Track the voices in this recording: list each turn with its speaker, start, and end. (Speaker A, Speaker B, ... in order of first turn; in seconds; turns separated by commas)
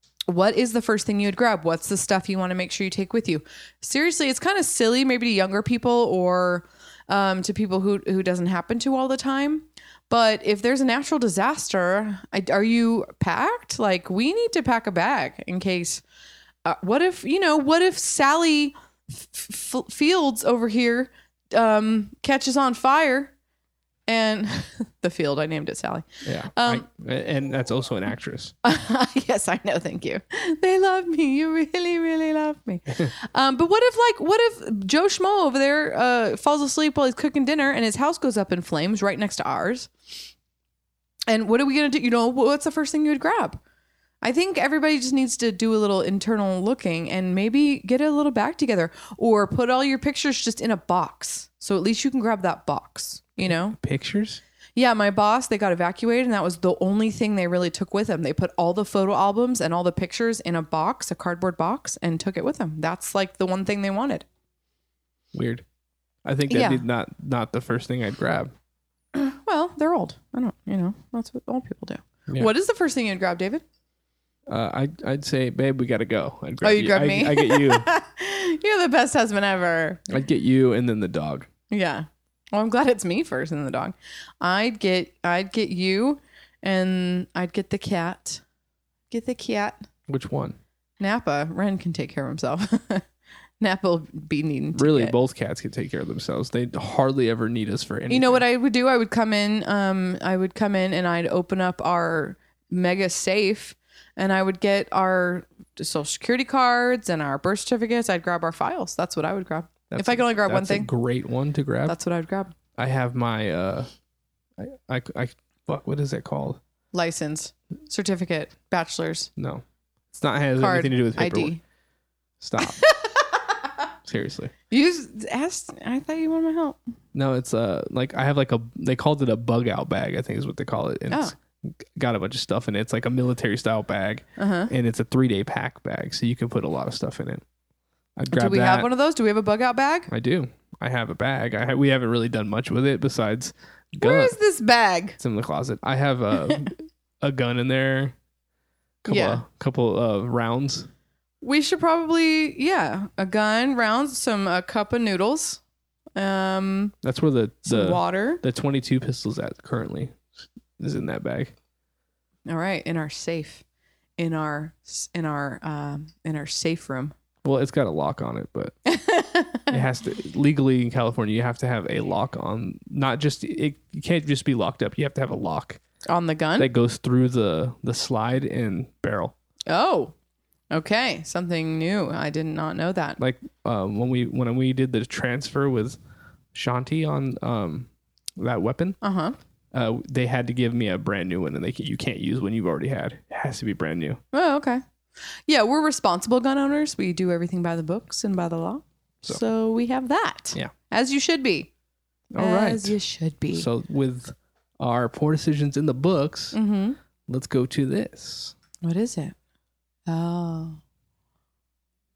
Speaker A: 0.3-16.0, Speaker A: 16.6-23.3, Speaker A: 24.1-26.8, Speaker B: 26.2-28.5, Speaker A: 28.6-39.9, Speaker A: 41.3-43.6, Speaker A: 44.2-53.8, Speaker B: 53.5-54.4, Speaker A: 54.8-64.2, Speaker B: 65.3-65.6, Speaker B: 66.2-68.5, Speaker A: 66.5-66.8, Speaker A: 69.1-73.6, Speaker B: 74.5-77.9, Speaker A: 76.6-80.1, Speaker B: 80.1-81.5, Speaker A: 81.7-88.4, Speaker A: 89.1-89.8, Speaker B: 90.1-90.6, Speaker A: 91.0-93.0, Speaker A: 93.6-95.1, Speaker B: 94.8-98.4, Speaker A: 98.1-110.9, Speaker B: 109.9-112.0, Speaker A: 111.9-112.5, Speaker B: 112.8-113.9, Speaker B: 114.6-116.6, Speaker A: 116.9-119.3, Speaker B: 119.4-121.5, Speaker A: 120.6-121.6, Speaker B: 122.4-122.8, Speaker A: 122.6-123.5, Speaker B: 124.0-124.5, Speaker A: 124.7-126.8, Speaker B: 127.1-131.3, Speaker B: 131.9-137.4, Speaker A: 134.4-134.7, Speaker B: 138.2-138.9, Speaker A: 138.3-140.1, Speaker B: 140.1-144.3, Speaker A: 144.0-145.2, Speaker B: 145.2-148.1, Speaker B: 149.0-150.9, Speaker A: 149.1-149.4, Speaker A: 151.4-155.6, Speaker A: 156.2-156.9, Speaker B: 157.0-160.2, Speaker A: 157.6-158.4, Speaker B: 160.8-161.5, Speaker A: 162.5-163.6, Speaker A: 164.2-167.1, Speaker B: 167.4-168.7, Speaker A: 168.9-169.7, Speaker B: 169.7-175.8, Speaker A: 176.1-176.7, Speaker B: 176.6-179.3, Speaker A: 179.7-180.1, Speaker A: 180.7-183.2, Speaker B: 183.2-186.0, Speaker B: 186.5-189.0, Speaker A: 189.0-189.3, Speaker B: 189.7-194.2, Speaker A: 194.3-194.8, Speaker A: 195.5-201.7, Speaker B: 202.3-202.9, Speaker A: 202.4-203.7, Speaker B: 203.5-206.6, Speaker A: 206.5-207.0, Speaker B: 207.3-208.5, Speaker A: 208.8-209.3, Speaker A: 210.1-210.8